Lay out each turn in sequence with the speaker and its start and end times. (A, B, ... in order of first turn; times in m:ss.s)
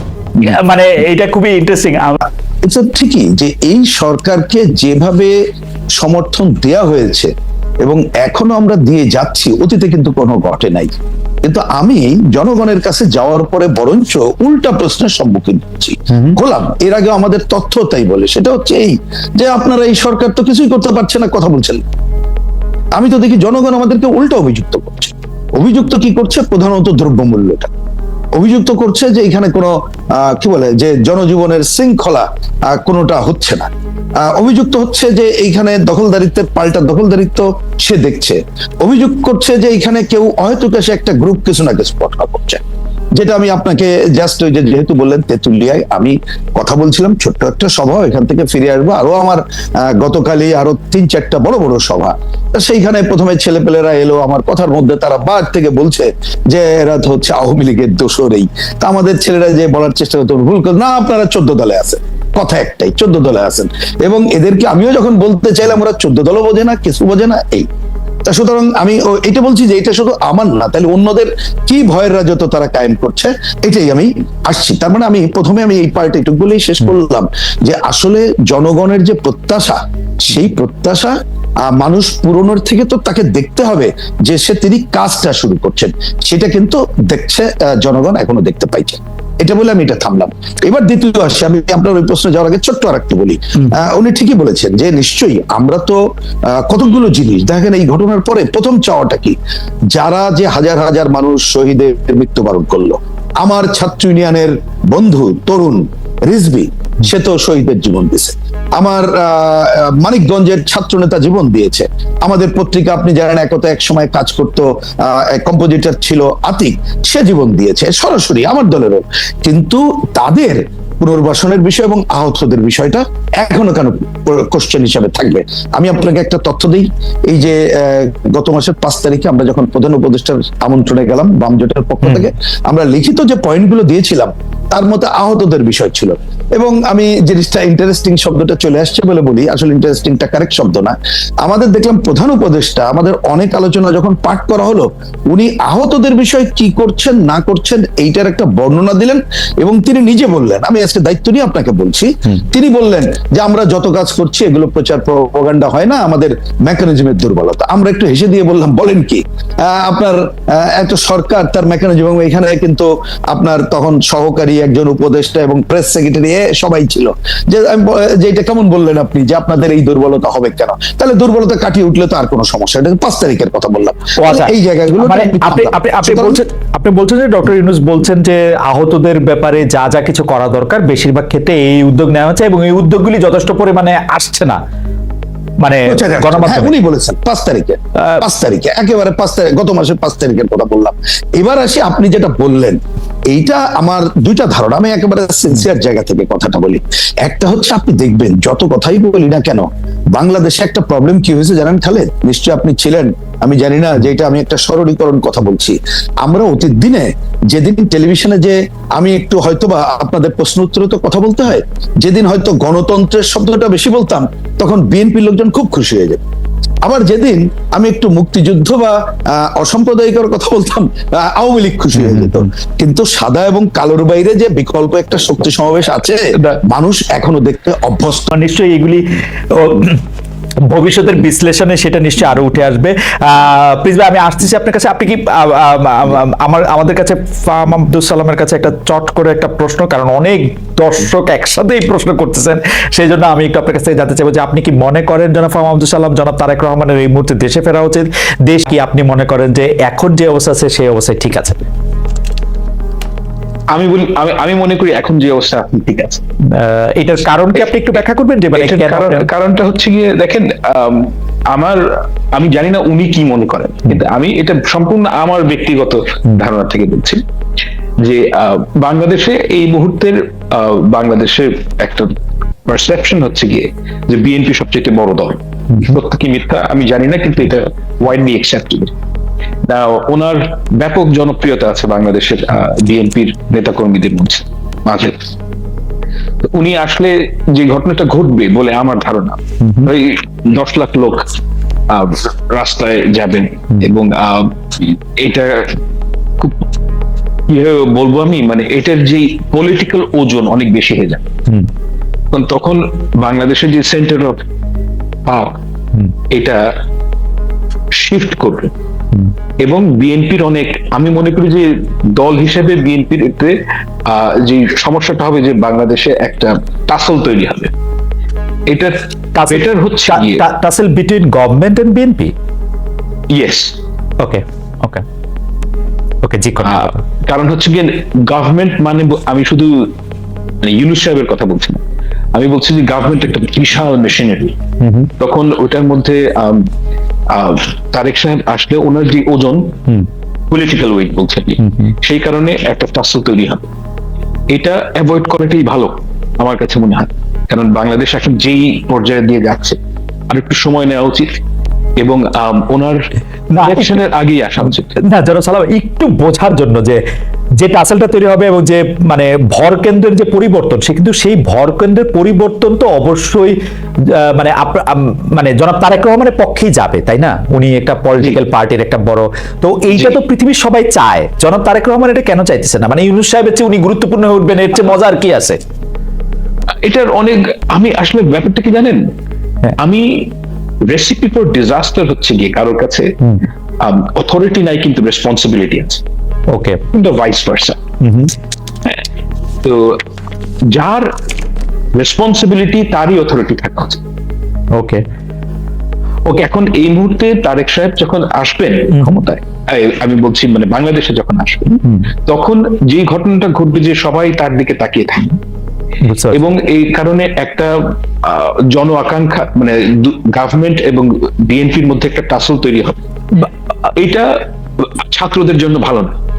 0:00.4-0:02.2 A
0:02.6-0:05.3 B
0:06.0-0:07.3 B
0:07.8-0:10.9 B
0:11.4-0:21.8 B
0:16.1-0:16.4 A
0:22.9-0:27.7 B
0:28.3-0:33.7 B
0:34.2-0:42.6 B
0:43.1-1:07.7 B
1:08.2-1:36.0 B
1:36.5-1:39.4 B
1:39.9-2:56.4 B
2:54.2-3:04.6 A
3:05.6-3:06.8 A
3:05.8-3:12.8 B
3:08.0-3:08.2 A
3:13.3-3:36.2 B
3:36.8-3:48.3 B
3:42.0-3:42.4 A
3:48.3-3:50.0 A
3:50.7-4:11.6 A
4:13.7-4:16.2 C
4:16.5-4:19.3 A
4:18.5-4:27.2 C
4:28.0-4:32.1 C
4:32.6-4:38.9 C
4:39.6-4:45.2 C
4:46.4-4:51.3 C
4:49.6-4:49.9 A
4:51.9-4:55.8 C
4:57.5-5:01.2 C
5:02.3-5:04.4 C
5:05.2-5:05.6 C
5:06.3-5:06.7 C
5:07.9-5:08.7 C
5:09.6-5:17.7 C
5:18.7-5:19.0 C
5:19.3-5:22.3 A
5:19.5-5:20.4 C
5:23.3-5:23.8 C
5:24.2-5:25.0 A
5:26.2-5:27.0 A
5:26.6-5:29.9 C
5:30.6-5:31.8 C
5:32.3-5:34.6 C
5:34.8-5:35.1 A
5:35.2-5:36.7 C
5:37.3-5:39.8 C
5:40.5-5:43.7 C
5:44.5-5:49.8 C
5:50.3-5:51.3 C
5:52.0-5:53.0 C
5:53.5-5:54.0 A
5:53.6-5:55.0 C
5:54.9-5:57.0 A
5:57.6-6:03.5 A
6:04.1-6:15.6 A
6:16.8-6:19.1 C
6:19.8-6:20.3 C
6:20.9-6:23.1 C
6:23.8-6:26.0 C
6:26.5-6:26.8 A
6:26.9-6:27.8 C
6:28.0-6:28.3 A
6:29.6-6:30.0 C
6:30.7-6:31.1 C
6:31.9-6:34.0 C
6:34.7-6:35.0 A
6:36.2-6:45.4 C
6:38.9-6:39.2 A
6:46.0-6:46.4 A
6:46.3-6:53.0 C
6:53.9-6:56.1 C